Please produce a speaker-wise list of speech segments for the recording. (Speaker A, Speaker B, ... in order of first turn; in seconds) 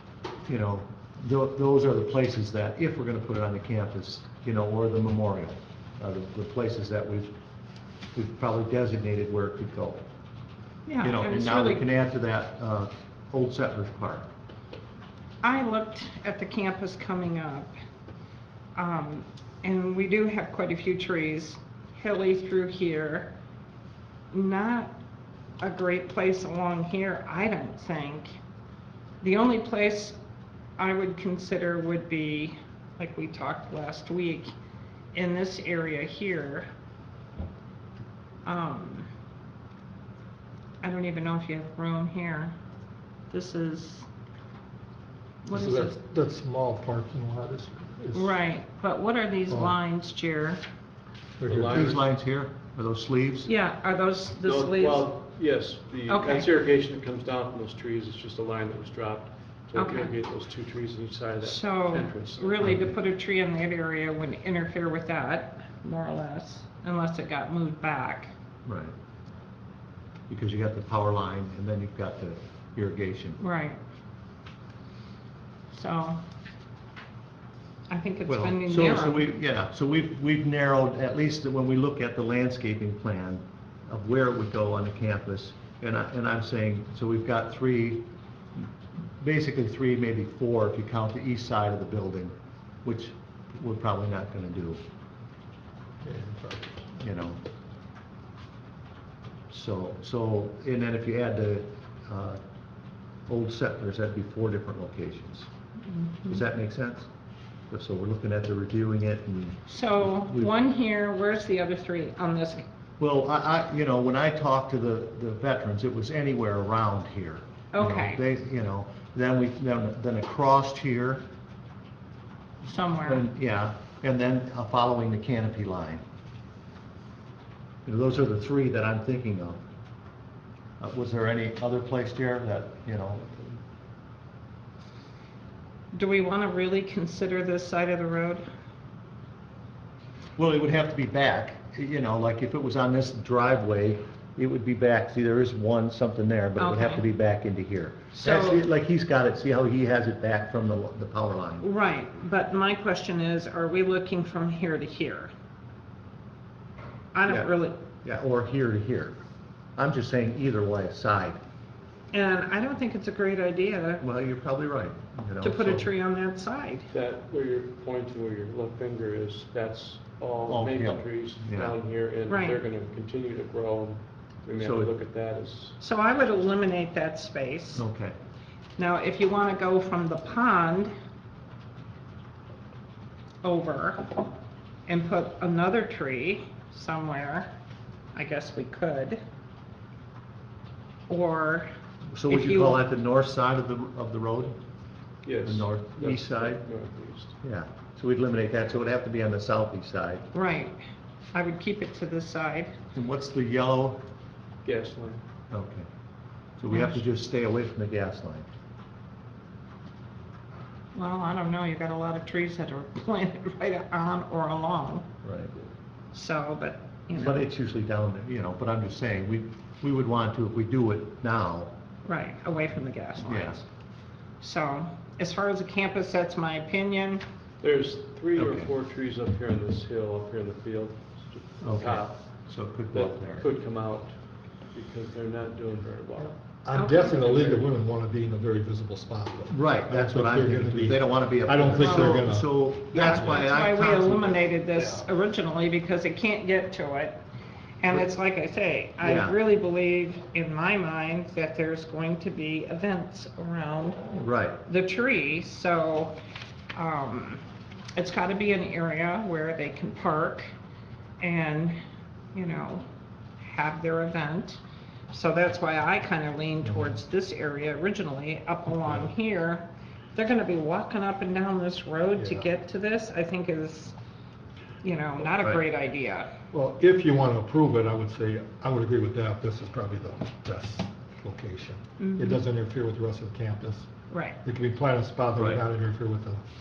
Speaker A: 0.5-7.3, 8.1-10.0, 11.0-14.3, 51.6-53.5, 68.7-68.9, 70.3-73.4, 78.3-88.7, 89.2-92.3, 92.8-94.8, 97.0-97.4, 99.5-102.4, 103.3-105.5, 106.3-107.1, 107.7-110.5, 113.0-121.3, 123.0-126.0, 127.8-129.6, 130.8-133.4, 140.4-151.7, 158.0-159.2, 159.8-161.4, 164.0-165.9, 170.5-171.8, 174.5-174.9, 177.7-178.1, 192.1-194.6, 195.4-196.6, 197.4-200.3, 202.9-204.0, 205.5-205.8, 206.6-208.5, 215.2-215.5, 217.2-221.7, 223.2-223.6, 228.3-228.7, 231.6-233.4, 239.5-244.4, 249.0-249.3, 254.1-254.6, 285.4-285.6
Speaker B: 10.9-11.8, 15.4-17.7, 18.8-23.3, 24.3-24.9, 25.6-28.3, 29.2-30.1, 30.8-34.5, 35.1-36.6, 38.4-39.1, 40.8-42.5, 43.3-44.1, 45.4-46.0, 48.1-50.6, 53.4-55.1, 56.1-56.5, 59.7-60.1, 61.4-68.3, 73.4-73.8, 75.7-76.2, 77.9-79.3, 105.9-106.4, 109.7-112.6, 117.7-118.2, 122.7-123.2, 135.9-138.4, 146.6-147.0, 148.1-148.6, 151.6-155.3, 157.1-157.8, 162.1-164.0, 165.4-166.9, 172.3-172.6, 175.8-177.8, 178.8-180.9, 183.4-184.3, 184.9-187.5, 188.1-189.2, 191.1-191.7, 192.3-192.8, 200.3-200.8, 201.3-202.7, 206.7-207.0, 210.9-215.1, 216.1-217.5, 222.0-223.6, 224.4-227.2, 236.7-237.5, 241.8-242.2, 242.9-247.2, 247.8-254.0, 254.6-256.1, 256.7-257.4, 257.9-260.5, 261.2-261.7, 262.3-262.8, 263.4-264.6, 265.1-273.9, 274.8-276.3, 282.0-282.4, 284.1-284.4
Speaker C: 45.5-48.3, 49.5-49.8, 51.4-52.0, 96.0-96.9, 236.6-242.6, 272.2-272.4, 276.5-283.9, 284.4-286.4
Speaker D: 51.5-52.0, 54.4-62.8, 166.9-175.8, 195.2-197.3, 204.6-205.2, 227.6-232.3, 232.9-234.2, 234.7-236.4, 237.2-237.6